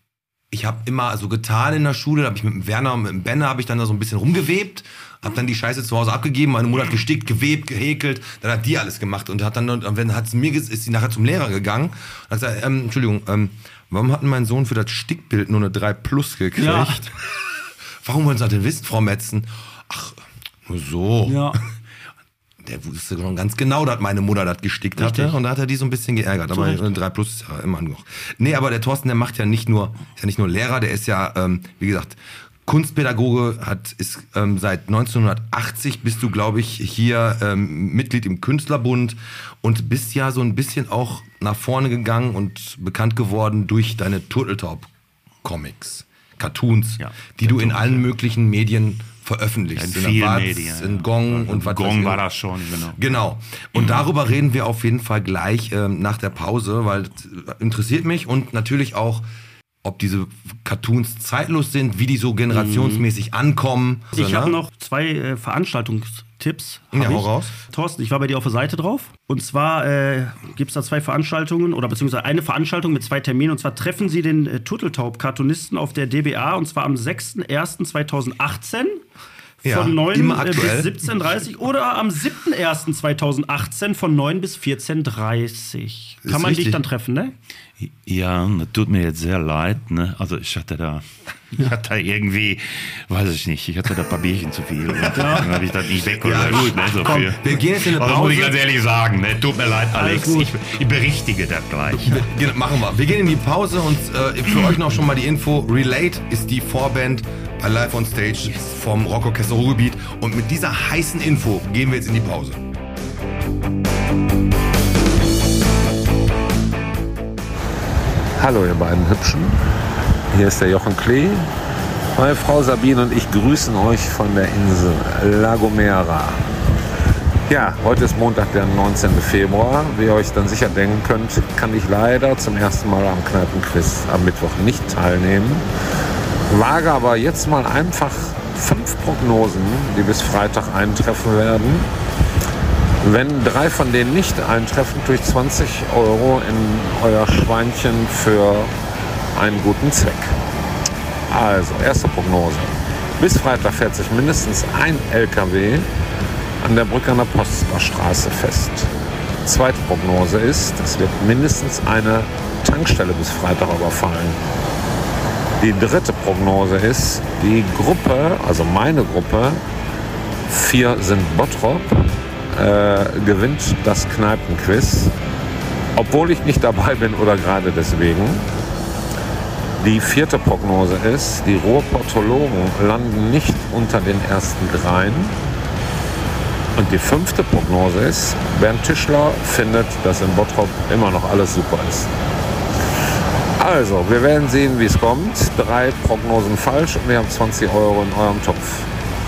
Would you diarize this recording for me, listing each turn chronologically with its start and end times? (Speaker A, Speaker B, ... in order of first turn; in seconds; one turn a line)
Speaker A: 0.5-17.3
Speaker B: 16.6-17.0
Speaker A: 18.0-21.6
Speaker B: 21.2-21.6
Speaker A: 22.6-44.9
Speaker B: 25.0-25.3
Speaker B: 26.5-26.8
Speaker A: 45.4-52.2
Speaker C: 47.0-48.1
Speaker C: 49.7-53.0
Speaker A: 53.0-59.2
Speaker C: 53.8-54.0
Speaker A: 59.8-64.6
Speaker B: 62.5-63.0
Speaker B: 64.1-79.0
Speaker A: 66.9-67.5
Speaker A: 79.6-81.0
Speaker B: 79.6-87.3
Speaker A: 86.2-86.8
Speaker C: 87.8-102.3
Speaker B: 95.1-95.5
Speaker A: 96.1-98.6
Speaker B: 99.9-100.5
Speaker A: 102.0-112.6
Speaker D: 118.4-119.6
Speaker D: 120.3-121.5
Speaker D: 122.1-126.4
Speaker D: 127.5-135.7
Speaker D: 136.5-141.9
Speaker D: 143.0-148.7
Speaker D: 149.3-150.3
Speaker D: 151.3-155.9
Speaker D: 156.6-158.9
Speaker D: 159.4-164.4
Speaker D: 165.6-169.6
Speaker D: 170.5-172.0
Speaker D: 172.5-175.1
Speaker D: 175.9-178.5
Speaker D: 179.8-185.3
Speaker D: 186.8-192.1
Speaker D: 193.6-198.9